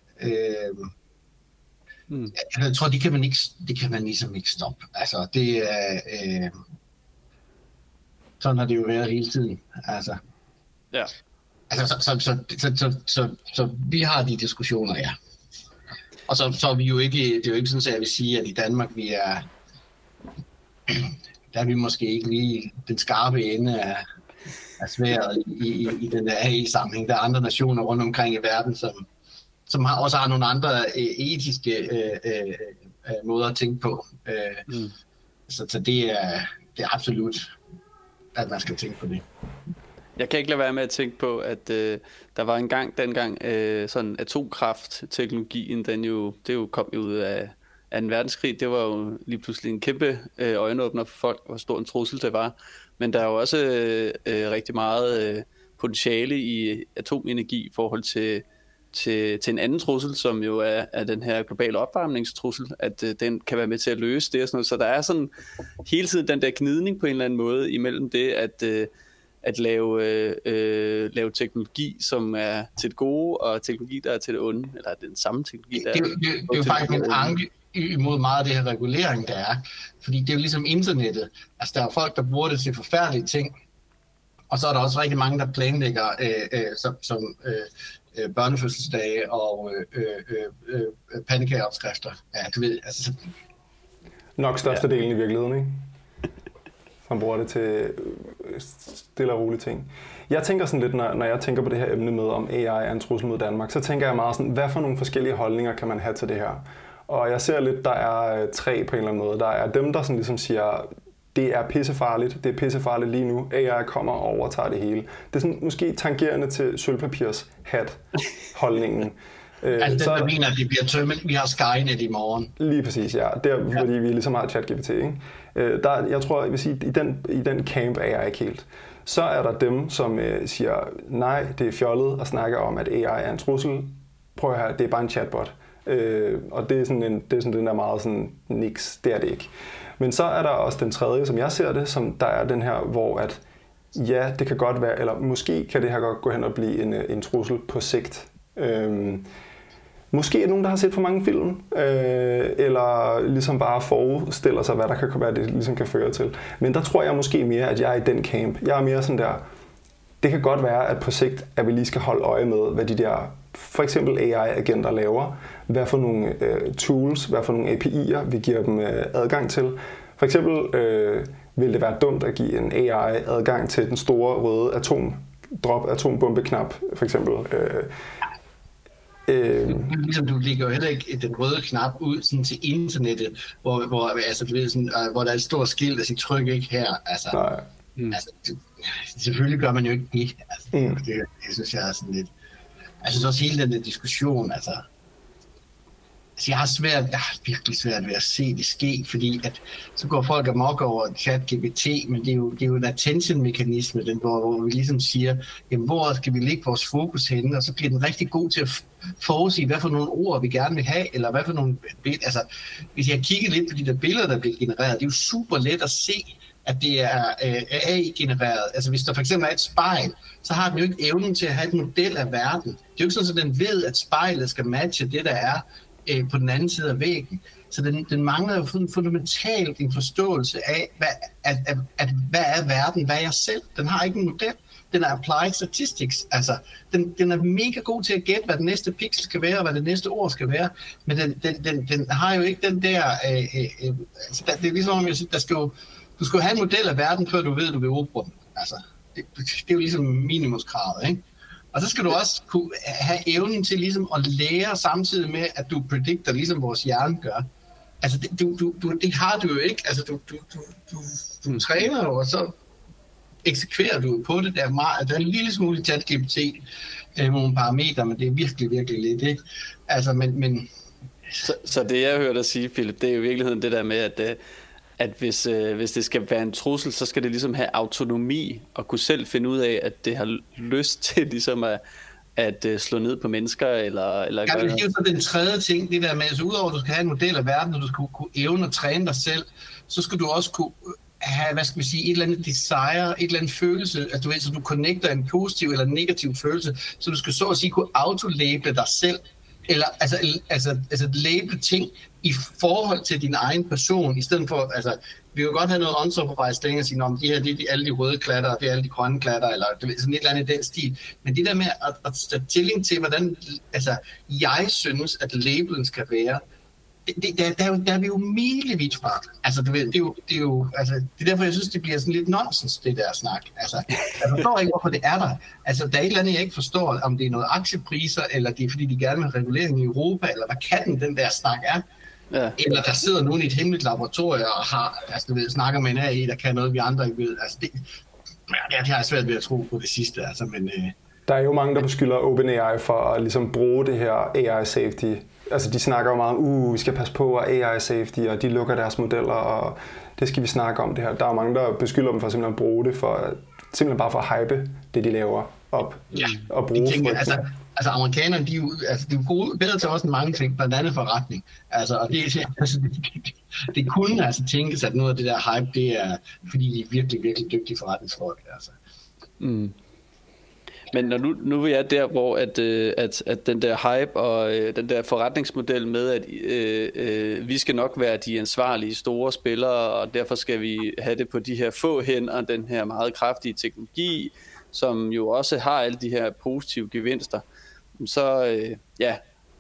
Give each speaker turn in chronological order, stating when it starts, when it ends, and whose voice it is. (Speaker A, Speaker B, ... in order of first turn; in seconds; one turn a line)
Speaker A: 0.2-0.9
Speaker A: 2.4-6.5
Speaker A: 8.4-10.2
Speaker A: 11.7-15.2
Speaker A: 16.3-19.5
Speaker A: 20.9-24.1
Speaker A: 24.8-29.1
Speaker A: 29.7-34.7
Speaker B: 34.7-34.9
Speaker A: 35.5-37.5
Speaker A: 38.4-39.2
Speaker B: 40.2-65.3
Speaker B: 65.8-68.9
Speaker B: 69.4-77.4
Speaker A: 75.8-83.5
Speaker A: 84.5-93.2
Speaker C: 94.4-95.8
Speaker C: 97.1-120.3
Speaker A: 119.8-122.5
Speaker C: 122.6-143.4
Speaker C: 143.9-149.3
Speaker C: 150.1-159.4
Speaker C: 160.2-177.9
Speaker C: 179.3-179.9
Speaker A: 179.7-187.4
Speaker C: 187.3-187.7
Speaker A: 188.1-192.3
Speaker C: 190.7-191.0
Speaker A: 193.0-194.9
Speaker A: 196.4-257.5
Speaker A: 258.0-262.6
Speaker A: 263.4-266.6
Speaker A: 267.2-270.7
Speaker B: 271.4-274.4
Speaker B: 275.0-281.8
Speaker B: 282.4-284.8
Speaker A: 284.5-316.4
Speaker A: 317.1-331.8
Speaker B: 332.3-332.6
Speaker A: 332.6-337.9
Speaker A: 338.5-340.9
Speaker C: 341.3-357.4
Speaker A: 356.1-368.8
Speaker B: 369.4-369.8
Speaker B: 370.9-387.4
Speaker B: 388.0-389.2